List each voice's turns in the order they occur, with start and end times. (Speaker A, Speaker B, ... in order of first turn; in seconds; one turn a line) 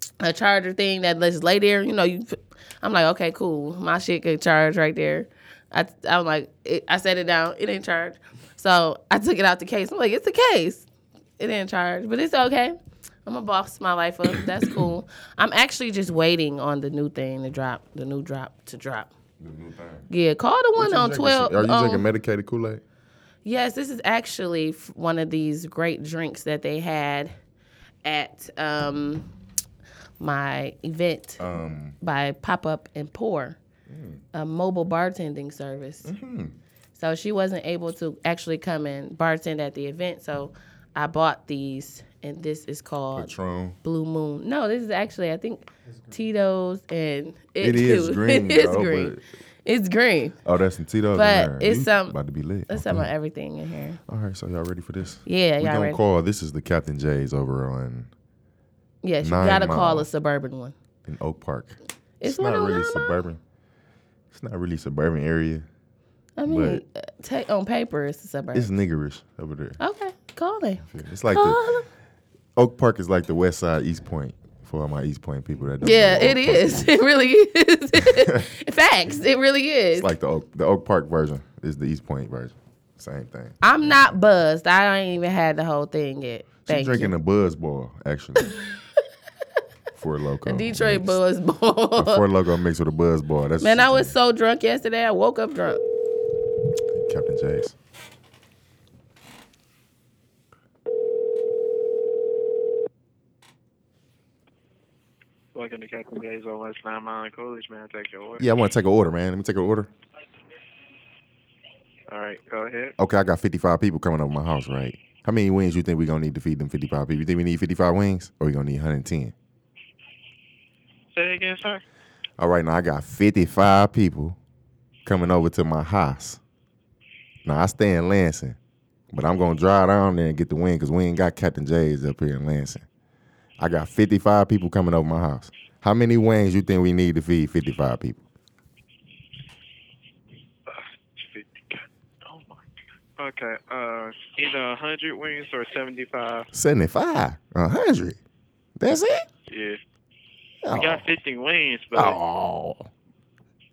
Speaker A: 0.2-10.9
Speaker A: 11.4-19.1
Speaker B: 19.4-20.1
Speaker A: 20.1-22.0
Speaker B: 20.8-22.8
Speaker A: 23.4-27.3
Speaker A: 28.0-29.3
Speaker A: 30.2-31.4
Speaker B: 31.4-32.0
Speaker A: 32.0-33.6
Speaker B: 33.9-34.2
Speaker A: 34.3-36.1
Speaker B: 36.0-36.5
Speaker A: 37.0-43.3
Speaker B: 43.1-43.8
Speaker A: 43.8-50.4
Speaker B: 47.6-49.2
Speaker B: 50.4-53.1
Speaker A: 51.1-52.1
Speaker A: 52.7-54.0
Speaker B: 54.1-58.1
Speaker A: 55.2-56.0
Speaker A: 59.0-60.7
Speaker B: 59.2-60.1
Speaker B: 61.0-63.4
Speaker A: 62.2-63.2
Speaker B: 64.3-65.7
Speaker A: 66.4-68.7
Speaker B: 66.5-66.8
Speaker B: 68.5-69.8
Speaker A: 69.8-71.9
Speaker B: 70.9-71.6
Speaker B: 72.5-76.9
Speaker A: 75.8-80.1
Speaker B: 78.0-78.5
Speaker B: 80.0-83.6
Speaker A: 83.6-87.1
Speaker B: 86.7-88.5
Speaker B: 89.9-91.2
Speaker A: 90.5-92.3
Speaker B: 92.0-94.1
Speaker A: 93.6-95.8
Speaker B: 96.9-97.8
Speaker C: 105.5-108.5
Speaker B: 108.4-109.9
Speaker C: 112.1-112.9
Speaker B: 113.0-119.3
Speaker C: 121.1-121.8
Speaker B: 122.4-124.4
Speaker B: 125.0-126.4
Speaker B: 127.4-128.6
Speaker B: 129.1-132.8
Speaker B: 133.6-138.2
Speaker C: 140.7-142.6
Speaker C: 143.2-146.5
Speaker B: 146.5-148.2
Speaker B: 148.8-149.3
Speaker C: 149.5-149.8
Speaker B: 150.6-151.0
Speaker C: 150.8-152.2
Speaker B: 151.9-152.9